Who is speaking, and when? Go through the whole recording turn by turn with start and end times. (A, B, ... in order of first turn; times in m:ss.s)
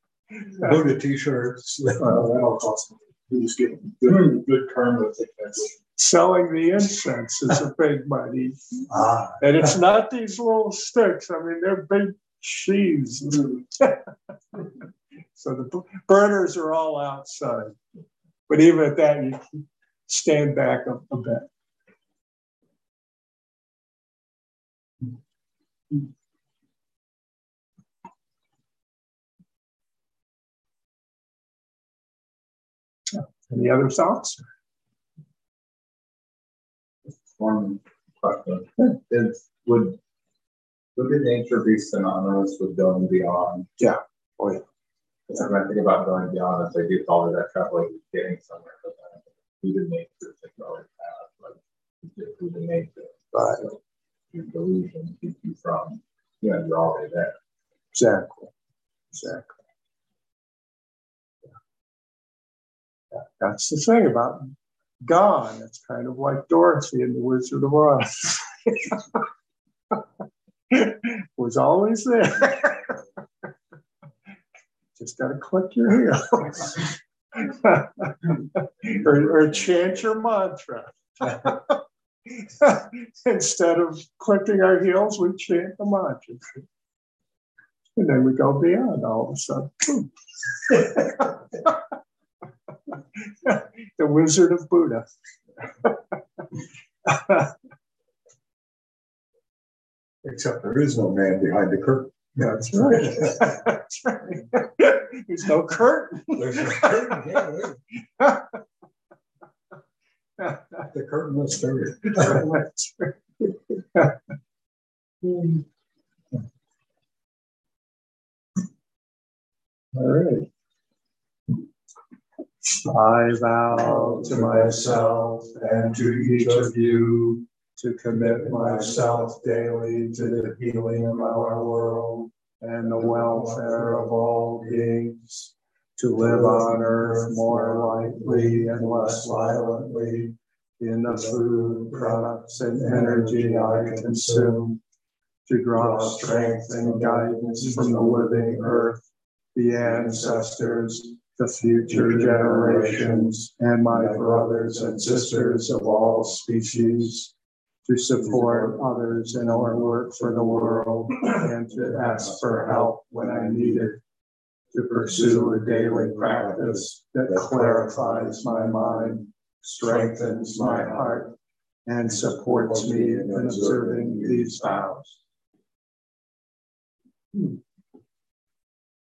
0:00.6-0:02.2 A
0:02.0-0:05.8 B
0:06.0-0:08.6 C
0:08.9-0:09.7 A
0:09.4-0:14.0 C
0:15.3-0:17.8 C
0:18.5-0:21.5 C
0:33.1-0:34.4 C
0:37.3-0:40.0 D
0:40.9-0:43.7 D
0:43.8-0:44.6 C
0:45.3-0:53.8 D
0:53.3-0:53.6 C
0:54.3-0:57.3 D
0:57.9-0:58.5 C
0:59.1-0:59.5 C
1:03.1-1:09.2 C
1:10.7-1:13.0 C
1:15.0-1:26.6 C
1:28.0-1:30.1 C
1:30.6-1:31.7 C
1:33.2-1:35.0 C
1:37.0-1:37.5 C
1:40.2-1:43.6 A
1:42.4-1:47.4 C
1:46.3-1:47.8 A
1:48.2-1:48.6 C
1:50.9-1:52.4 A
1:52.2-1:54.1 C
1:59.9-2:00.5 C
2:02.8-2:06.8 C
2:03.7-2:07.4 A
2:07.8-2:20.2 C
2:08.2-2:11.8 A
2:12.8-2:14.8 A
2:16.2-2:20.3 A
2:20.8-2:24.8 C
2:21.1-2:24.6 A
2:25.4-2:29.0 C
2:25.8-2:28.6 A
2:29.5-2:37.3 C
2:31.9-2:33.3 A
2:33.9-2:35.6 A
2:37.8-2:44.0 C
2:38.2-2:38.7 A
2:41.9-2:43.7 A
2:44.7-2:55.2 C
2:44.9-2:49.2 A
2:49.8-2:51.2 A
2:52.1-2:54.8 A